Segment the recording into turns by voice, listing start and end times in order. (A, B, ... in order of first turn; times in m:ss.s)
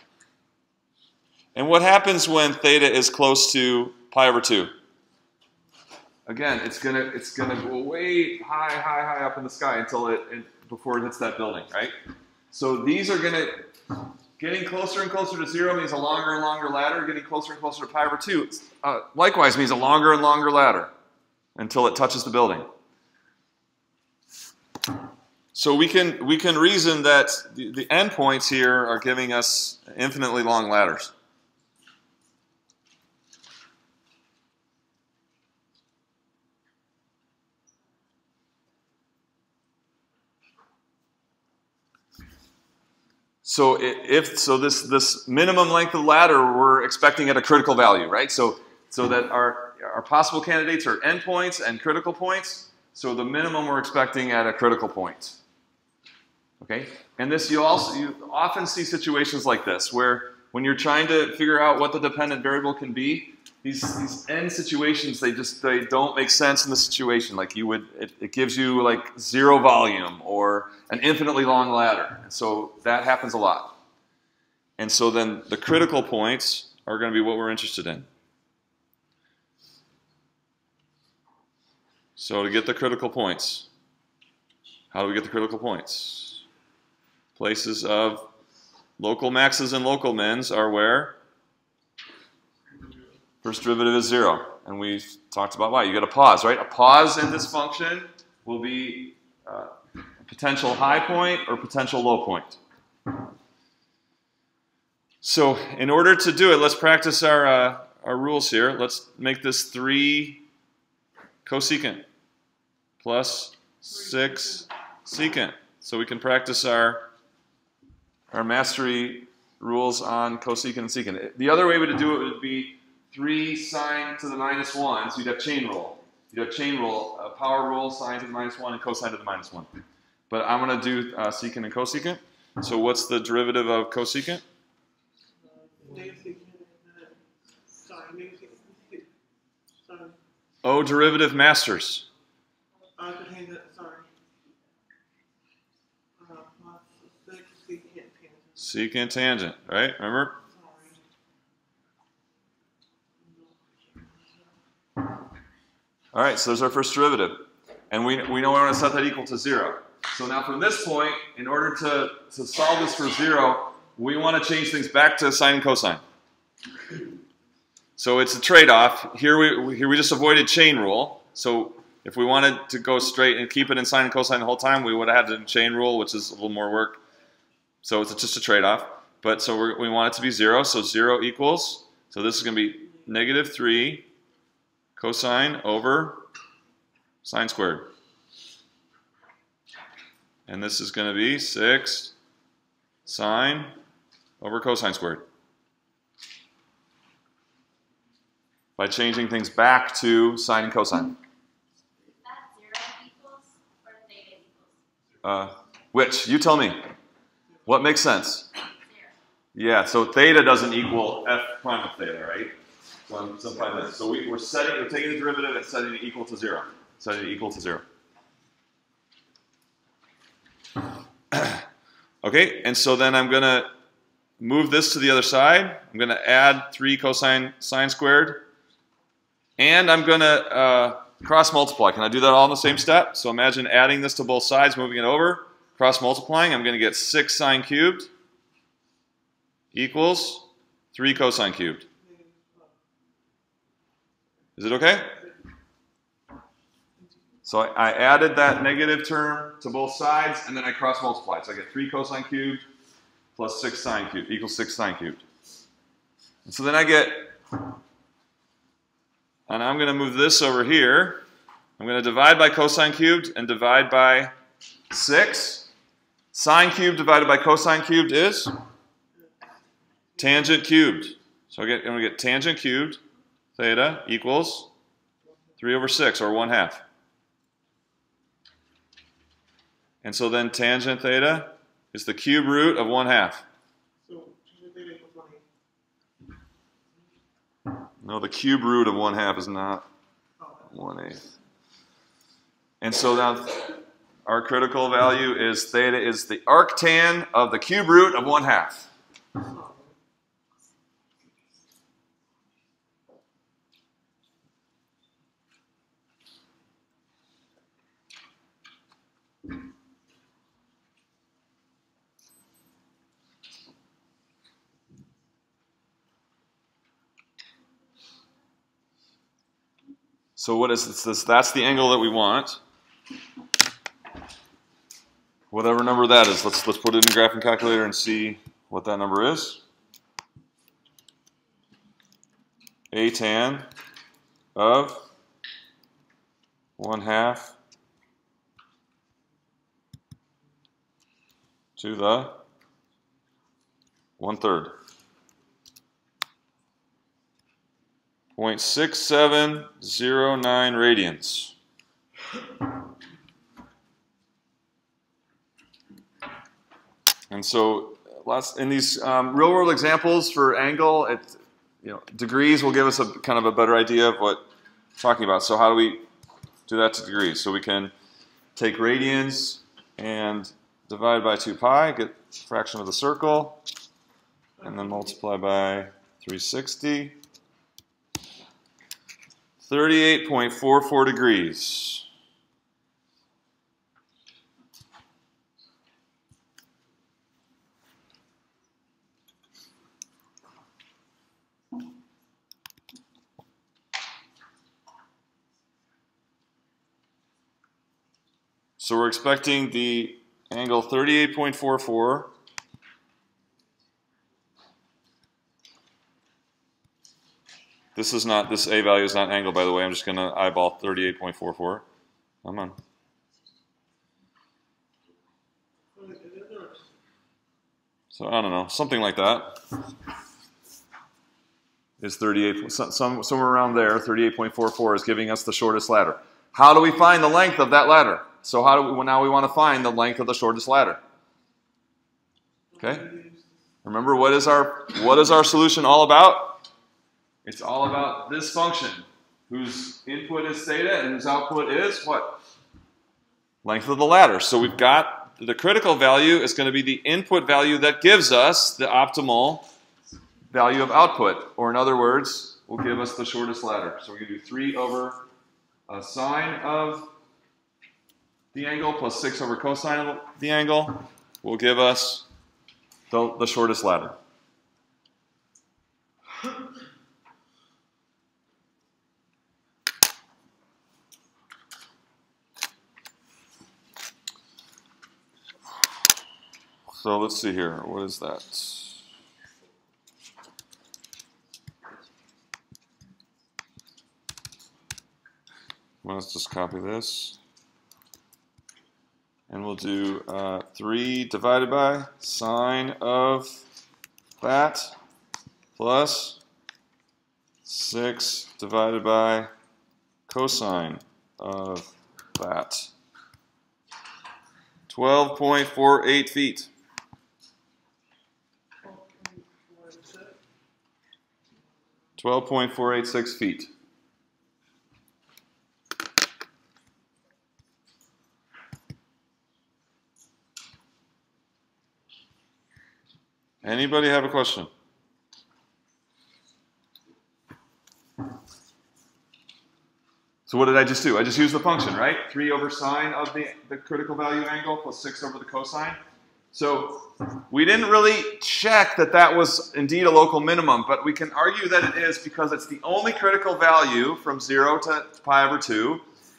0:01.6-0:04.7 A
0:06.3-0:12.0 A
0:12.5-0:13.7 A
0:14.4-0:20.9 A
0:21.6-0:22.7 A
0:25.5-0:31.1 A
0:43.4-0:55.4 A
0:56.6-1:13.8 A
1:14.8-1:18.1 A
1:22.2-1:23.7 A
1:24.9-1:26.4 A
1:27.4-1:28.3 A
1:29.0-1:31.2 A
1:33.4-1:39.7 A
1:40.3-1:42.6 A
1:45.2-1:50.4 A
1:51.4-1:52.0 A
1:53.0-1:57.1 A
1:53.9-1:54.7 B
1:58.3-2:09.7 A
2:10.3-2:14.4 A
2:15.8-2:17.2 B
2:17.8-2:19.1 B
2:19.8-2:20.2 B
2:20.6-2:22.1 A
2:23.0-2:24.1 B
2:26.2-2:28.7 B
2:28.6-2:30.4 A
2:30.5-2:31.0 B
2:33.2-2:34.4 B
2:36.1-2:46.0 A
2:48.0-2:57.0 A
2:57.8-3:04.0 A
3:05.0-3:06.2 A
3:07.2-3:07.9 A
3:10.5-3:12.1 A
3:13.1-3:13.8 A
3:14.4-3:15.3 A
3:18.8-3:21.2 A
3:22.2-3:24.8 C
3:25.2-3:26.9 A
3:27.7-3:28.5 A
3:28.9-3:29.2 C
3:29.6-3:32.6 A
3:33.1-3:37.8 A
3:41.3-3:41.6 A
3:42.2-3:43.7 A
3:44.4-3:48.4 A
3:49.6-3:58.1 A
3:59.7-4:01.8 A
4:02.0-4:02.7 B
4:04.6-4:05.2 A
4:07.4-4:12.6 A
4:13.4-4:15.2 A
4:16.5-4:17.4 A
4:19.5-4:21.2 A
4:21.8-4:24.3 A
4:24.9-4:25.7 A
4:26.3-4:28.5 A
4:30.2-4:30.5 B
4:30.2-4:33.0 A
4:33.6-4:34.7 A
4:35.6-4:36.8 A
4:40.0-4:43.4 A
4:44.0-4:45.4 B
4:48.0-4:49.9 A
4:50.4-4:50.7 B
4:50.7-4:51.3 A
4:52.8-4:58.9 A
4:59.4-4:59.9 B
5:20.4-5:22.6 A
5:25.5-5:29.6 A
5:32.9-5:33.7 A
5:34.6-5:35.0 A
5:36.8-5:37.5 A
5:41.8-5:42.4 A
5:44.2-5:44.8 A
5:48.4-5:51.5 A
5:57.3-6:04.5 A
6:05.0-6:06.0 A
6:06.7-6:07.9 A
6:08.6-6:13.6 A
6:14.6-6:17.2 A
6:19.6-6:22.1 A
6:38.8-6:42.3 A
6:48.0-6:51.8 A
6:52.4-6:52.8 A
6:56.0-6:56.8 B
6:58.1-6:59.6 A
7:02.0-7:11.0 A
7:12.7-7:13.5 B
7:12.8-7:13.1 A
7:13.8-7:16.6 A
7:17.4-7:22.4 A
7:23.6-7:29.7 A
7:30.5-7:35.2 A
7:35.9-7:37.1 A
7:38.5-7:42.3 A
7:43.1-7:44.2 A
7:57.0-7:59.0 A
8:06.0-8:07.4 A
8:09.5-8:13.6 A
8:14.4-8:15.0 A
8:15.8-8:16.4 A
8:17.7-8:19.5 A
8:20.3-8:22.9 A
8:24.9-8:26.7 A
8:28.8-8:30.4 B
8:32.2-8:33.7 A
8:43.6-8:44.7 A
8:50.5-8:56.0 A
8:56.5-9:06.0 A